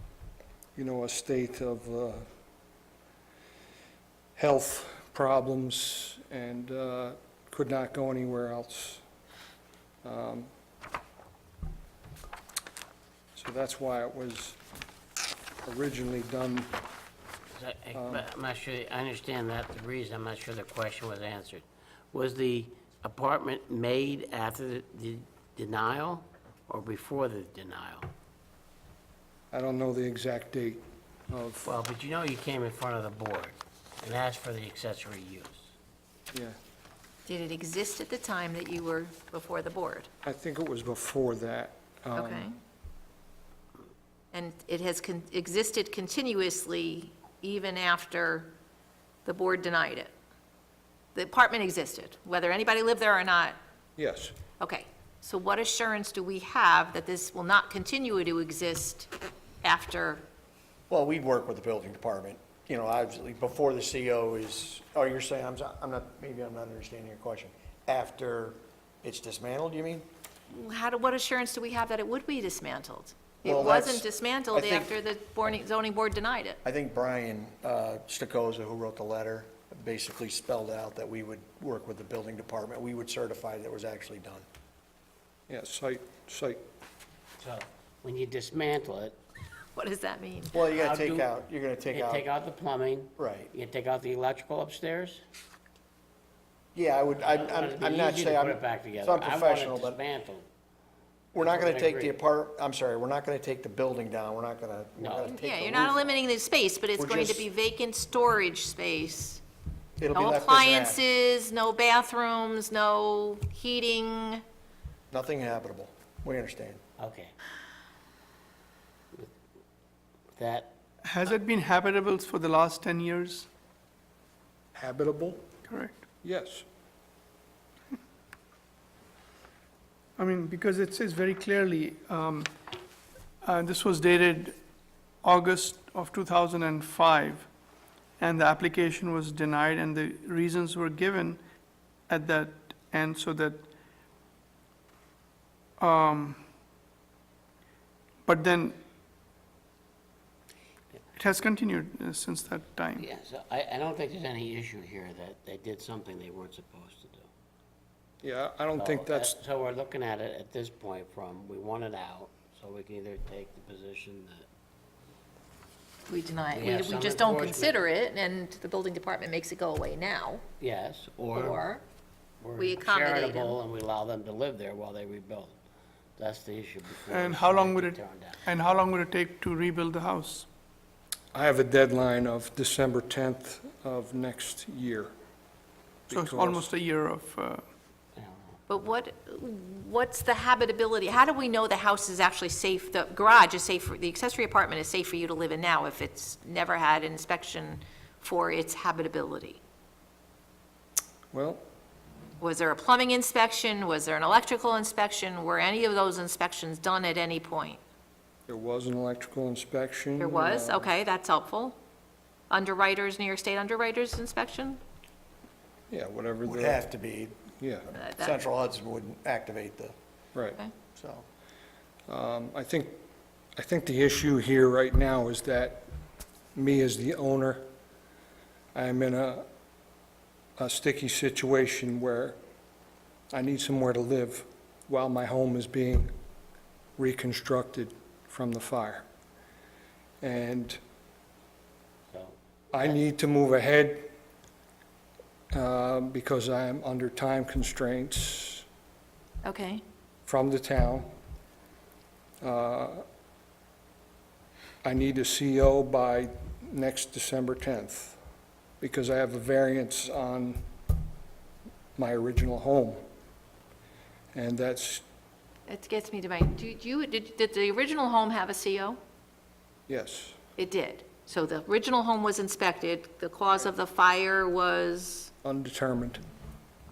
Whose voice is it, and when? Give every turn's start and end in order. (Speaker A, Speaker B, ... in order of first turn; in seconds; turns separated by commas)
Speaker A: 0.8-2.3, Speaker A: 4.3-9.0, Speaker A: 10.0-10.5, Speaker A: 13.3-14.6, Speaker A: 15.6-16.7, Speaker B: 17.5-28.1, Speaker A: 17.9-18.2, Speaker A: 29.5-31.7, Speaker B: 31.6-35.7, Speaker A: 36.3-36.6, Speaker C: 37.2-40.1, Speaker A: 40.2-42.5, Speaker C: 42.1-42.6, Speaker C: 44.3-48.5, Speaker C: 49.2-50.1, Speaker C: 51.1-53.6, Speaker A: 54.0-54.3, Speaker C: 54.6-59.1, Speaker C: 59.6-60.2, Speaker D: 60.9-70.1, Speaker C: 70.5-76.6, Speaker D: 73.4-74.9, Speaker D: 76.6-84.4, Speaker A: 85.5-86.6, Speaker B: 87.4-89.2, Speaker C: 89.7-90.6, Speaker D: 90.5-92.3, Speaker B: 90.7-91.3, Speaker B: 91.9-95.2, Speaker D: 93.2-93.5, Speaker D: 96.7-100.0, Speaker B: 97.2-100.5, Speaker D: 101.3-106.2, Speaker B: 101.4-102.2, Speaker B: 105.0-105.3, Speaker C: 105.2-109.4, Speaker D: 107.0-107.5, Speaker D: 110.0-111.0, Speaker C: 110.1-114.4, Speaker D: 115.1-116.8, Speaker B: 117.0-117.3, Speaker B: 120.3-120.7, Speaker E: 121.0-123.5, Speaker A: 124.7-125.4, Speaker E: 125.7-126.0, Speaker A: 126.2-126.6, Speaker E: 130.2-132.5, Speaker E: 133.4-134.6, Speaker E: 135.2-137.5, Speaker E: 138.2-141.4, Speaker E: 142.1-143.6, Speaker E: 145.8-146.4, Speaker E: 148.2-148.8, Speaker E: 151.1-153.1, Speaker B: 152.9-157.3, Speaker A: 158.2-159.4, Speaker B: 158.8-164.5, Speaker C: 166.1-170.4, Speaker B: 166.5-167.8, Speaker B: 170.6-171.7, Speaker C: 171.3-171.8, Speaker B: 172.4-175.6, Speaker C: 172.6-173.6, Speaker B: 176.2-178.4, Speaker E: 177.0-180.5, Speaker A: 181.3-185.1, Speaker A: 186.1-186.7, Speaker E: 186.1-187.6, Speaker B: 188.2-188.6, Speaker C: 188.7-199.6, Speaker A: 201.3-201.6, Speaker C: 202.4-207.8, Speaker A: 208.5-210.9, Speaker C: 210.2-211.8, Speaker C: 212.5-214.8, Speaker A: 215.9-216.8, Speaker D: 216.4-217.4, Speaker A: 217.5-217.9, Speaker C: 217.9-218.3, Speaker D: 218.2-219.9, Speaker D: 220.9-221.2, Speaker A: 222.1-223.0, Speaker A: 223.6-225.9, Speaker A: 226.5-227.7, Speaker A: 228.7-229.4, Speaker A: 230.6-232.4, Speaker A: 233.3-236.1, Speaker A: 237.0-239.1, Speaker A: 240.2-240.8, Speaker B: 242.1-243.0, Speaker A: 242.7-244.1, Speaker A: 245.5-248.6, Speaker C: 249.4-249.8, Speaker A: 250.3-251.1, Speaker A: 252.4-253.0, Speaker A: 254.8-258.2, Speaker A: 258.8-260.6, Speaker A: 261.9-263.0, Speaker A: 264.3-265.0, Speaker C: 265.7-269.0, Speaker A: 269.9-270.4, Speaker C: 270.6-275.3, Speaker A: 275.4-276.2